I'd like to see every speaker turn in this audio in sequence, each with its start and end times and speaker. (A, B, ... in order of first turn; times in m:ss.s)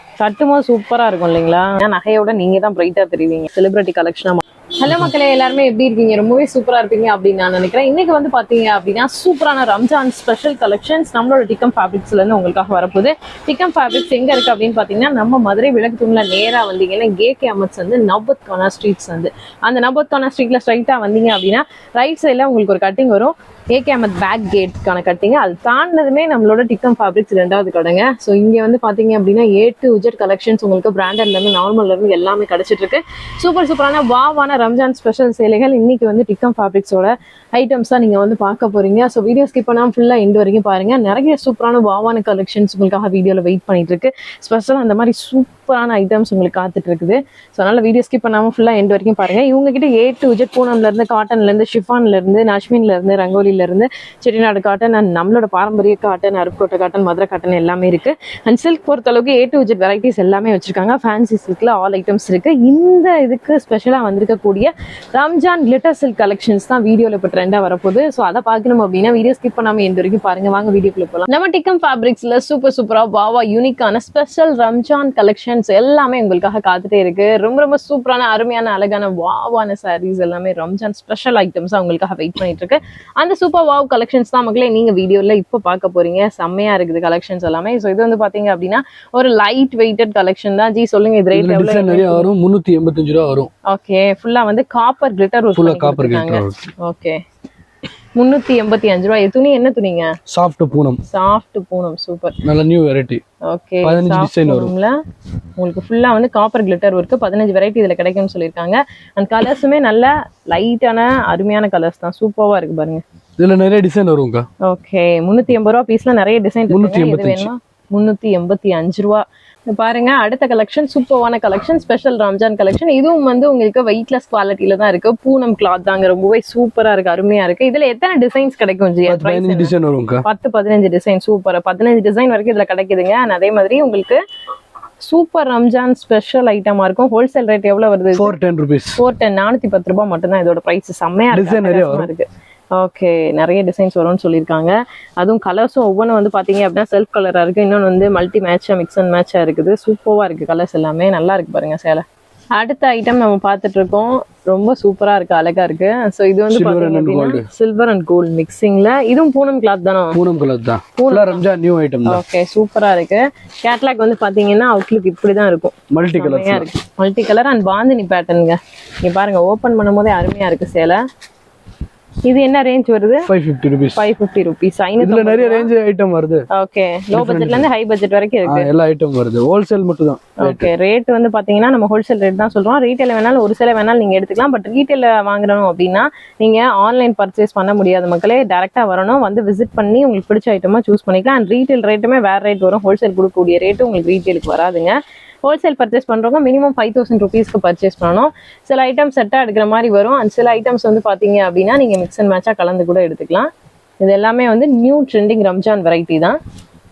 0:00.2-1:32.3 A
1:31.3-1:33.5 B
1:33.7-1:37.2 A
1:35.6-1:36.7 B
1:38.2-1:40.2 A
1:40.3-1:41.0 B
1:41.1-1:42.4 A
1:42.4-1:43.2 B
1:43.4-1:45.0 A
1:43.8-1:44.7 B
1:45.6-1:53.0 A
1:53.4-1:54.5 B
1:54.6-2:09.7 A
1:56.7-1:57.5 B
2:09.1-2:10.2 B
2:10.2-2:14.2 A
2:15.0-2:18.3 A
2:18.2-2:19.0 B
2:19.0-2:32.0 A
2:21.3-2:22.1 B
2:32.6-2:40.2 A
2:36.5-2:37.5 B
2:40.1-2:42.2 B
2:41.0-2:41.4 A
2:42.1-2:51.0 A
2:45.9-2:46.7 B
2:52.3-2:53.3 A
2:53.3-2:54.0 B
2:54.0-2:55.7 A
2:55.0-2:56.4 B
2:56.5-2:58.7 A
2:57.1-2:57.7 B
2:58.5-3:00.7 B
3:00.4-3:23.5 A
3:24.0-3:26.4 A